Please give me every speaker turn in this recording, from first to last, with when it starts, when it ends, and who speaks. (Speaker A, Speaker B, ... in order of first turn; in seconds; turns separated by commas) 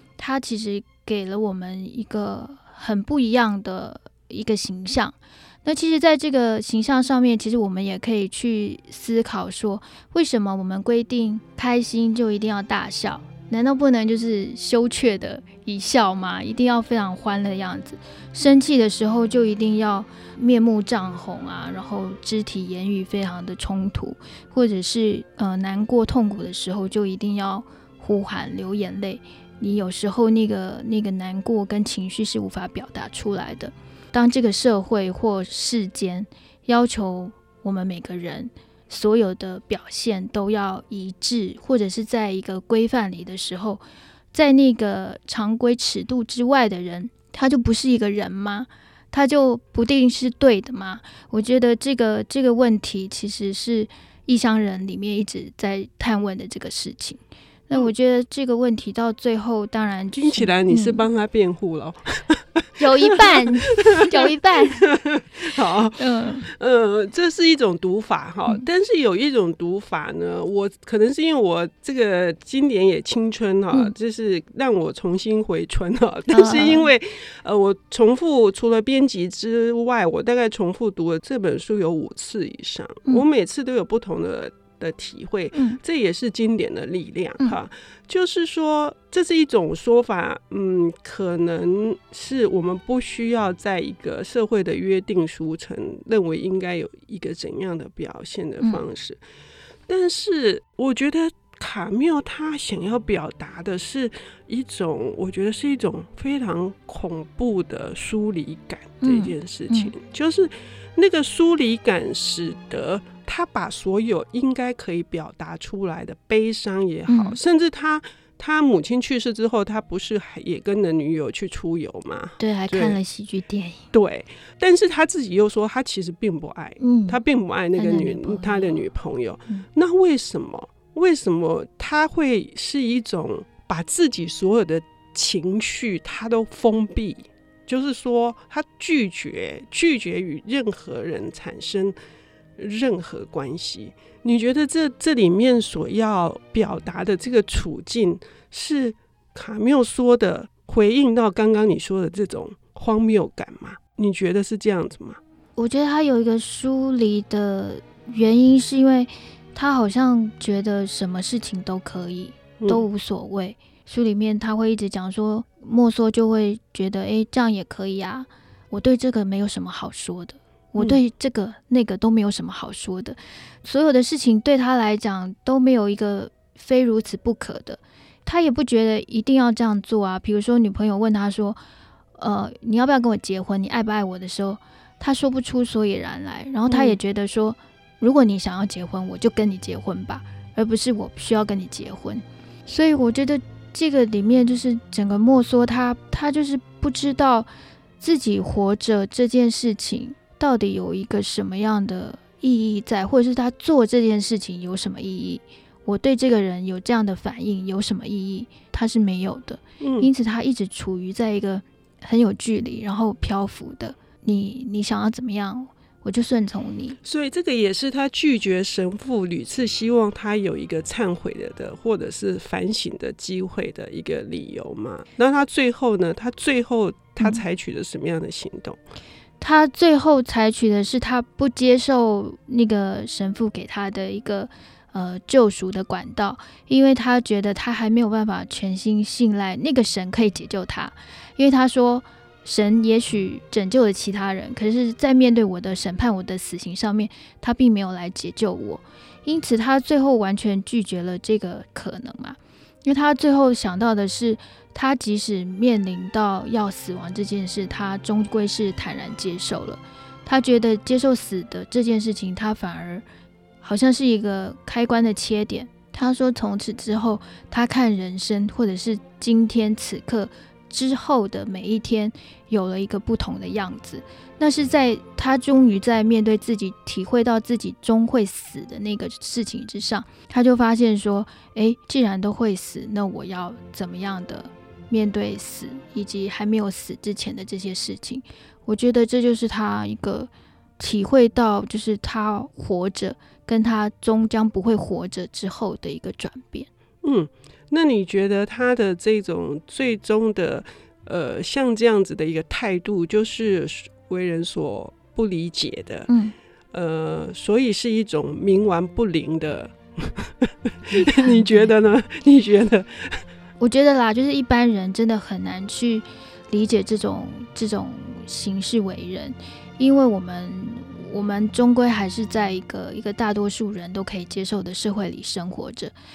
Speaker A: 0.2-61.1, Speaker B: 60.2-99.2, Speaker A: 62.8-64.9, Speaker A: 66.0-66.5, Speaker A: 76.3-76.9, Speaker A: 85.5-85.8, Speaker B: 99.9-123.0, Speaker A: 109.0-109.9, Speaker A: 117.1-117.4, Speaker A: 122.4-123.9, Speaker B: 123.9-141.9, Speaker A: 126.8-127.2, Speaker A: 127.8-128.8, Speaker B: 142.6-155.2, Speaker A: 155.6-181.6, Speaker B: 162.6-162.8, Speaker A: 182.2-197.5, Speaker B: 186.7-187.0, Speaker A: 198.0-217.0, Speaker B: 209.8-210.1, Speaker B: 217.0-228.8, Speaker A: 229.4-263.1, Speaker A: 263.6-296.7, Speaker B: 297.0-306.1, Speaker A: 306.1-306.4, Speaker B: 306.7-313.2, Speaker A: 310.9-311.7, Speaker A: 313.6-325.9